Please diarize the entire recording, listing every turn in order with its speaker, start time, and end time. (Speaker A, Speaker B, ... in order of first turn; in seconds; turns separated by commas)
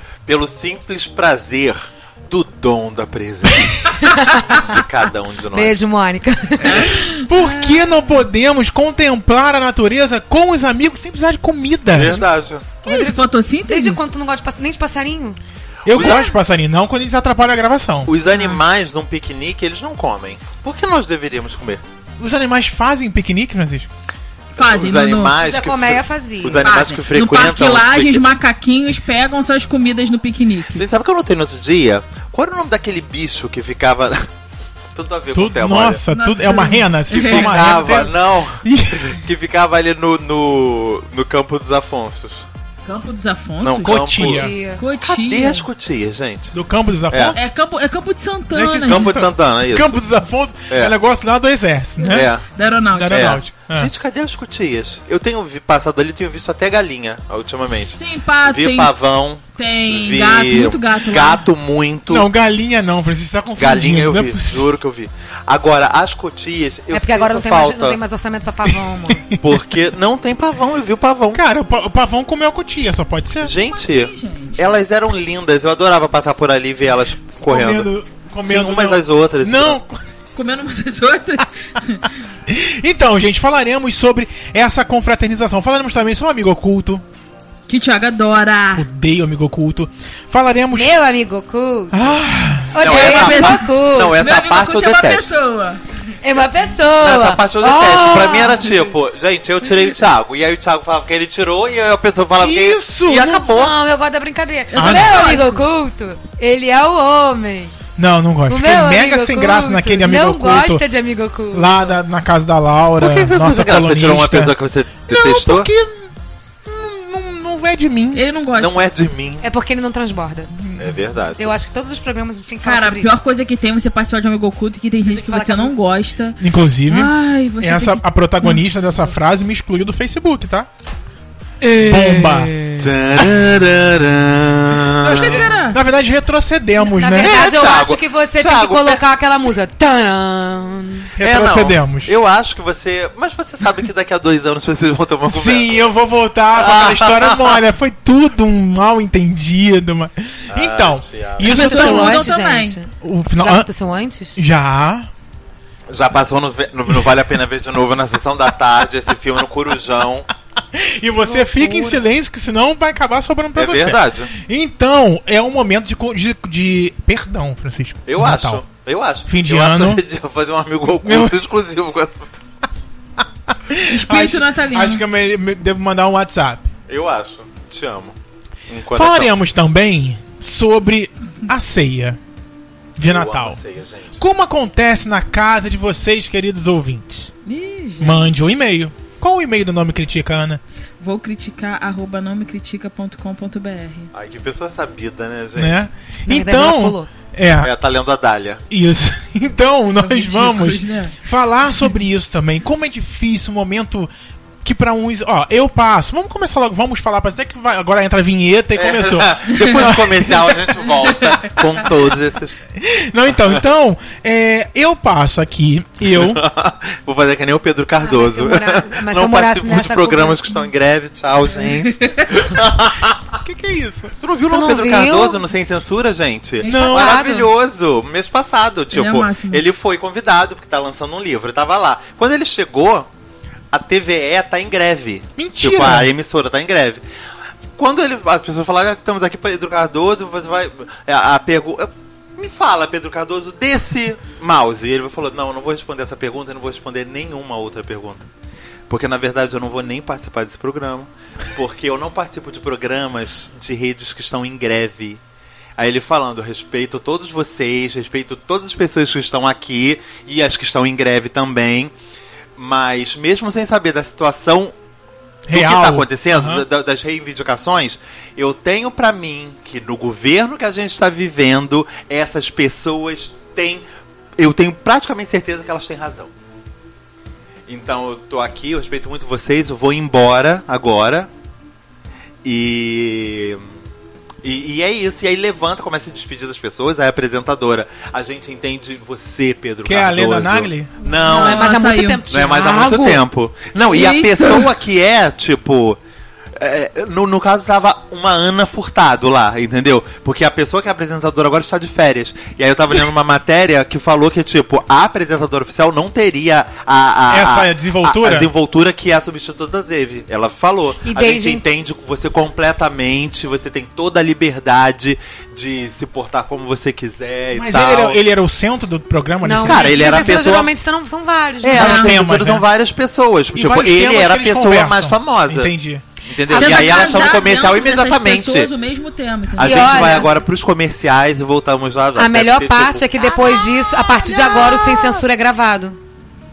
Speaker A: 0.2-5.8, Speaker B: 4.0-4.8, Speaker B: 5.5-6.9, Speaker C: 6.6-8.1, Speaker D: 6.6-12.2, Speaker A: 11.9-12.7, Speaker C: 12.8-14.0, Speaker B: 12.8-15.4, Speaker D: 15.8-18.1, Speaker A: 15.9-16.3, Speaker A: 18.1-21.8, Speaker D: 22.2-23.9, Speaker A: 24.5-28.3, Speaker C: 24.6-25.4, Speaker B: 25.4-26.7, Speaker C: 26.6-30.9, Speaker A: 30.7-34.3, Speaker A: 34.9-36.0, Speaker D: 35.3-39.2, Speaker C: 36.1-37.9, Speaker A: 37.2-42.5, Speaker C: 42.9-44.2, Speaker A: 43.6-46.5, Speaker D: 43.8-44.5, Speaker B: 44.2-44.8, Speaker C: 44.8-45.7, Speaker D: 46.5-47.4, Speaker A: 47.1-47.4, Speaker C: 47.4-49.1, Speaker D: 48.5-52.3, Speaker A: 48.9-50.0, Speaker C: 52.0-53.3, Speaker A: 52.1-52.4, Speaker D: 52.9-53.9, Speaker A: 53.1-62.3, Speaker C: 58.0-58.9, Speaker C: 59.6-61.4, Speaker D: 62.1-64.7, Speaker A: 63.6-68.0, Speaker B: 66.9-69.3, Speaker D: 69.1-69.6, Speaker A: 69.4-71.4, Speaker D: 71.3-73.5, Speaker A: 73.4-77.9, Speaker C: 73.6-74.8, Speaker D: 77.5-80.1, Speaker A: 78.4-79.8, Speaker C: 80.3-82.2, Speaker D: 82.5-87.0, Speaker C: 87.7-88.8, Speaker D: 88.8-90.9, Speaker B: 90.7-94.2, Speaker D: 91.9-92.8, Speaker A: 92.8-95.3, Speaker C: 92.8-95.9, Speaker B: 96.2-98.7, Speaker A: 97.0-103.8, Speaker D: 102.4-103.5, Speaker B: 103.5-107.8, Speaker C: 104.7-105.6, Speaker D: 104.8-105.4, Speaker D: 108.0-110.8, Speaker B: 108.5-111.9, Speaker D: 111.5-114.5, Speaker A: 113.0-115.7, Speaker D: 115.1-116.1, Speaker D: 116.6-118.2, Speaker C: 118.1-118.9, Speaker A: 118.5-119.4, Speaker B: 119.4-120.5, Speaker D: 120.5-121.0, Speaker A: 120.8-121.5, Speaker B: 121.4-123.3, Speaker C: 122.6-129.2, Speaker B: 125.0-125.7, Speaker D: 126.4-130.7, Speaker D: 131.8-132.5, Speaker C: 131.8-132.5, Speaker A: 132.8-135.5, Speaker D: 133.2-133.5, Speaker D: 135.0-137.7, Speaker C: 135.1-135.8, Speaker B: 136.8-141.1, Speaker A: 137.1-139.0, Speaker D: 141.2-142.1, Speaker A: 141.2-145.8, Speaker D: 145.3-152.3, Speaker A: 146.5-147.6, Speaker A: 150.5-151.6, Speaker C: 151.4-152.8, Speaker B: 151.4-154.4, Speaker D: 153.0-153.7, Speaker D: 154.4-155.1, Speaker A: 155.9-160.3, Speaker D: 160.7-168.6, Speaker B: 161.2-162.0, Speaker A: 163.6-164.3, Speaker A: 168.1-172.3, Speaker D: 169.3-170.0, Speaker D: 171.0-171.4, Speaker D: 173.5-176.7, Speaker C: 173.9-175.0, Speaker A: 176.9-178.2, Speaker A: 178.7-179.3, Speaker D: 178.9-182.2, Speaker D: 183.0-183.6, Speaker A: 183.0-184.2, Speaker D: 184.2-187.3, Speaker C: 187.4-188.3, Speaker D: 188.0-190.6, Speaker C: 191.0-194.1, Speaker A: 194.1-195.9, Speaker D: 195.6-197.7, Speaker B: 196.2-197.1, Speaker A: 197.6-198.6, Speaker D: 198.7-204.1, Speaker C: 199.9-201.2, Speaker D: 204.6-210.6, Speaker A: 208.8-212.6, Speaker C: 209.5-209.9, Speaker C: 210.9-211.9, Speaker D: 212.8-216.4, Speaker A: 216.1-223.3, Speaker B: 218.0-220.5, Speaker C: 221.6-222.3, Speaker D: 223.4-224.1, Speaker A: 224.2-233.1, Speaker B: 224.5-225.4, Speaker D: 226.6-227.3, Speaker B: 226.6-227.5, Speaker C: 228.9-229.6, Speaker A: 233.7-237.1, Speaker D: 235.4-236.1, Speaker A: 237.8-248.3, Speaker A: 248.9-255.2, Speaker A: 255.8-261.9, Speaker A: 262.6-264.7, Speaker D: 265.5-266.6, Speaker A: 265.5-273.8, Speaker A: 274.4-276.3, Speaker A: 277.7-281.3, Speaker A: 282.4-283.6, Speaker A: 284.4-296.0, Speaker D: 289.8-291.0, Speaker B: 291.1-293.2, Speaker C: 291.2-292.2, Speaker C: 293.9-294.7, Speaker A: 296.6-318.2, Speaker D: 307.3-308.5, Speaker B: 311.0-311.6, Speaker D: 317.5-320.4, Speaker B: 319.4-322.1, Speaker A: 319.6-320.7, Speaker A: 321.6-325.7, Speaker D: 321.7-322.7, Speaker C: 321.8-322.1, Speaker D: 323.5-326.0, Speaker A: 326.3-328.7, Speaker B: 326.5-327.4, Speaker C: 326.5-330.2, Speaker A: 329.5-333.7, Speaker B: 329.6-330.3, Speaker B: 332.1-336.0, Speaker A: 334.3-334.8